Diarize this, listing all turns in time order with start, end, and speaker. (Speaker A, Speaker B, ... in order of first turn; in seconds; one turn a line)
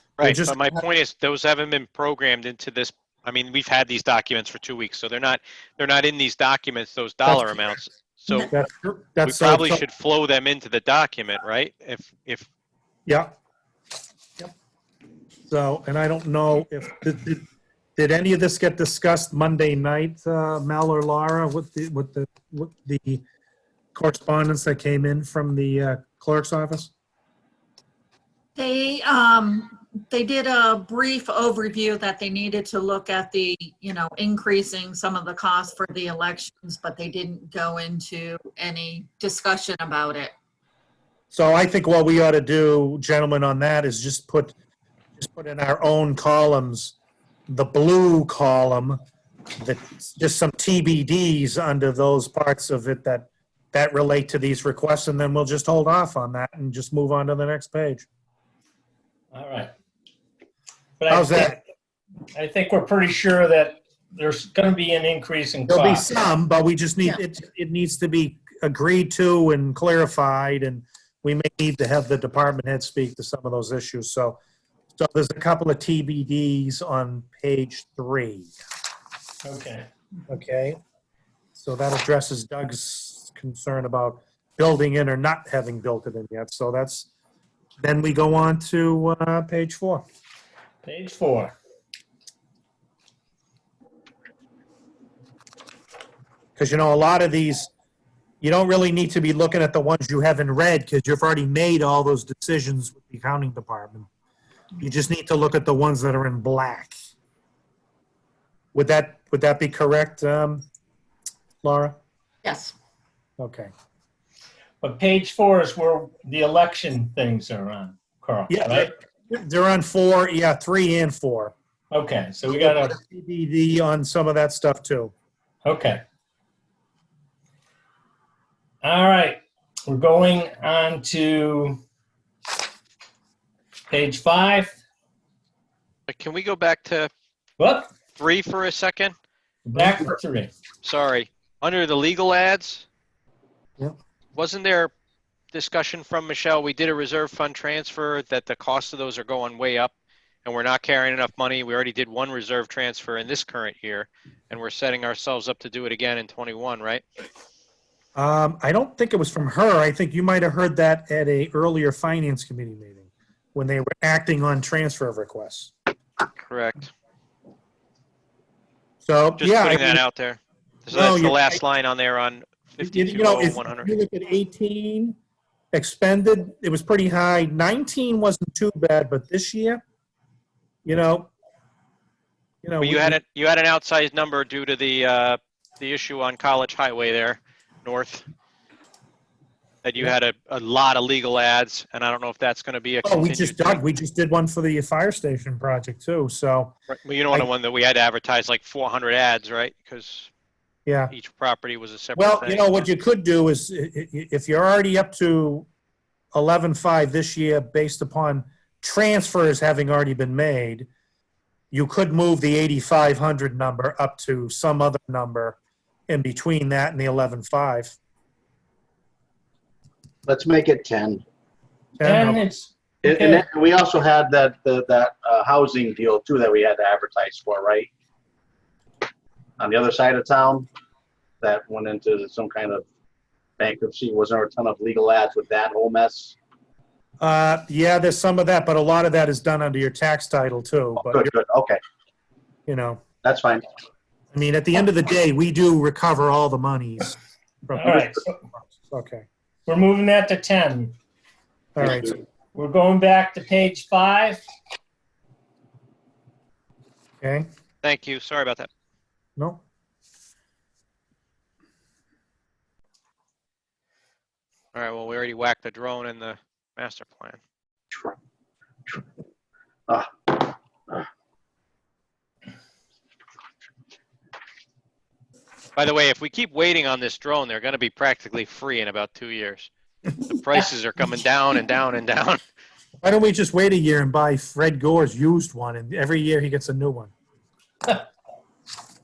Speaker A: 0.2-8.5
Speaker B: 0.2-0.8
Speaker B: 7.3-7.6
Speaker B: 8.4-9.8
Speaker A: 9.2-12.5
Speaker B: 13.1-13.3
Speaker B: 15.5-17.4
Speaker B: 18.0-23.2
Speaker B: 23.9-26.9
Speaker C: 28.6-40.3
Speaker B: 41.3-44.5
Speaker B: 45.2-47.0
Speaker B: 47.5-49.0
Speaker B: 49.6-58.1
Speaker D: 59.3-59.7
Speaker D: 61.0-61.6
Speaker B: 61.1-61.6
Speaker D: 62.3-66.1
Speaker B: 65.7-74.4
Speaker B: 75.0-78.5
Speaker D: 79.4-79.9
Speaker B: 80.3-80.8
Speaker B: 81.5-87.1
Speaker B: 87.8-90.0
Speaker D: 90.8-91.5
Speaker B: 96.6-97.7
Speaker B: 98.4-104.1
Speaker B: 104.8-106.9
Speaker B: 108.8-110.6
Speaker B: 111.6-112.0
Speaker C: 112.4-112.7
Speaker B: 113.4-113.7
Speaker D: 114.8-118.9
Speaker B: 118.5-121.5
Speaker D: 121.9-123.0
Speaker B: 122.5-125.1
Speaker D: 125.6-126.0
Speaker D: 128.8-131.8
Speaker D: 133.9-134.8
Speaker A: 136.1-137.1
Speaker D: 137.6-137.9
Speaker A: 138.2-139.2
Speaker D: 139.7-140.5
Speaker B: 139.7-140.1
Speaker A: 140.8-142.9
Speaker A: 144.4-144.9
Speaker A: 145.5-149.9
Speaker A: 150.4-157.0
Speaker B: 158.2-165.7
Speaker A: 166.4-166.9
Speaker B: 169.0-170.0
Speaker A: 169.4-173.9
Speaker B: 170.9-171.6
Speaker B: 172.8-175.2
Speaker B: 175.7-179.8
Speaker B: 180.8-181.3
Speaker B: 182.6-183.2
Speaker A: 182.8-188.2
Speaker A: 189.8-193.8
Speaker B: 193.0-196.8
Speaker A: 196.9-200.3
Speaker B: 200.9-201.1
Speaker A: 201.1-202.9
Speaker B: 202.2-205.7
Speaker B: 206.3-210.9
Speaker B: 211.7-215.6
Speaker B: 216.1-218.0
Speaker E: 220.3-221.2
Speaker B: 222.0-222.4
Speaker D: 222.0-223.4
Speaker E: 223.0-227.9
Speaker E: 229.6-230.7
Speaker E: 231.4-232.9
Speaker E: 233.6-236.3
Speaker B: 237.2-241.3
Speaker E: 241.0-241.8
Speaker B: 242.7-243.0
Speaker E: 243.2-243.7
Speaker B: 244.3-247.2
Speaker B: 247.7-249.3
Speaker D: 247.8-248.4
Speaker D: 249.7-250.9
Speaker B: 251.8-252.2
Speaker D: 252.5-254.4
Speaker B: 257.2-257.5
Speaker A: 257.8-258.7
Speaker B: 259.4-259.6
Speaker A: 264.7-267.4
Speaker E: 269.9-271.0
Speaker A: 275.8-279.7
Speaker A: 280.2-282.4
Speaker B: 283.0-287.1